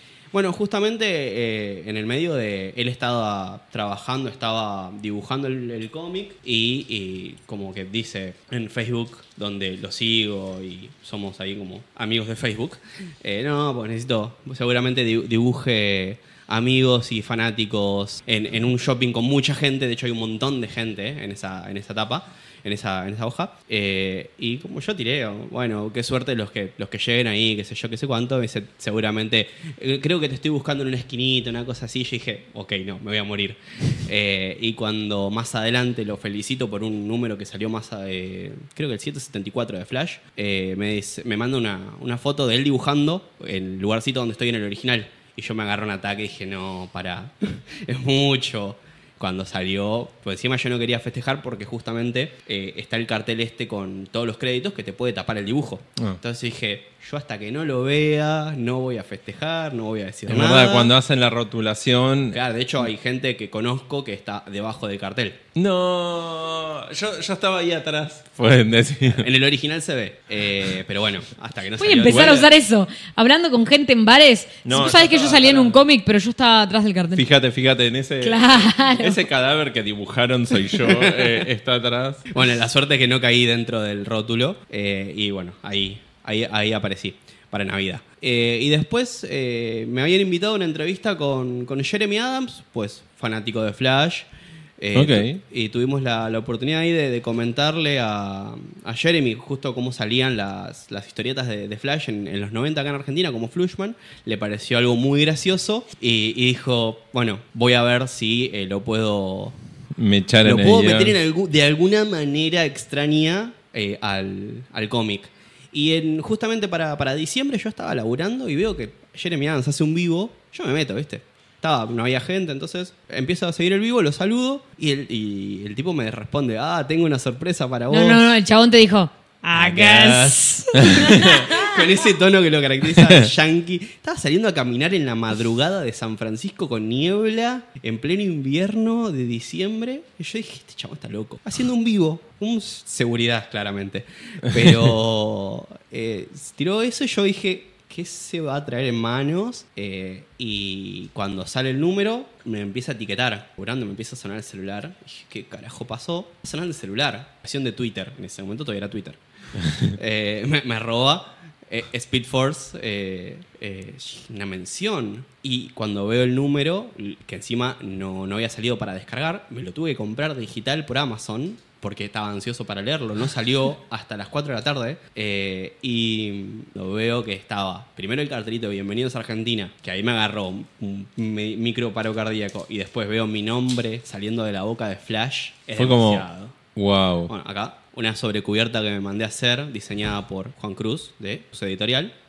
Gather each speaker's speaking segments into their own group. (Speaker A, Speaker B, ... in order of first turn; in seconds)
Speaker A: 0.3-60.9, 62.3-65.4, 69.1-72.5, 80.8-81.4, 82.3-94.3, 94.8-109.6, 110.4-128.3, 129.5-159.2, 159.7-186.6, 187.3-192.1
Speaker B: 60.3-62.4, 65.5-69.3, 72.1-72.5, 74.6-75.8, 77.1-82.3, 95.0-95.4, 110.0-111.2, 130.8-131.4, 132.9-133.3, 185.8-187.3
Speaker C: 71.8-77.3, 78.2-79.2, 127.9-132.0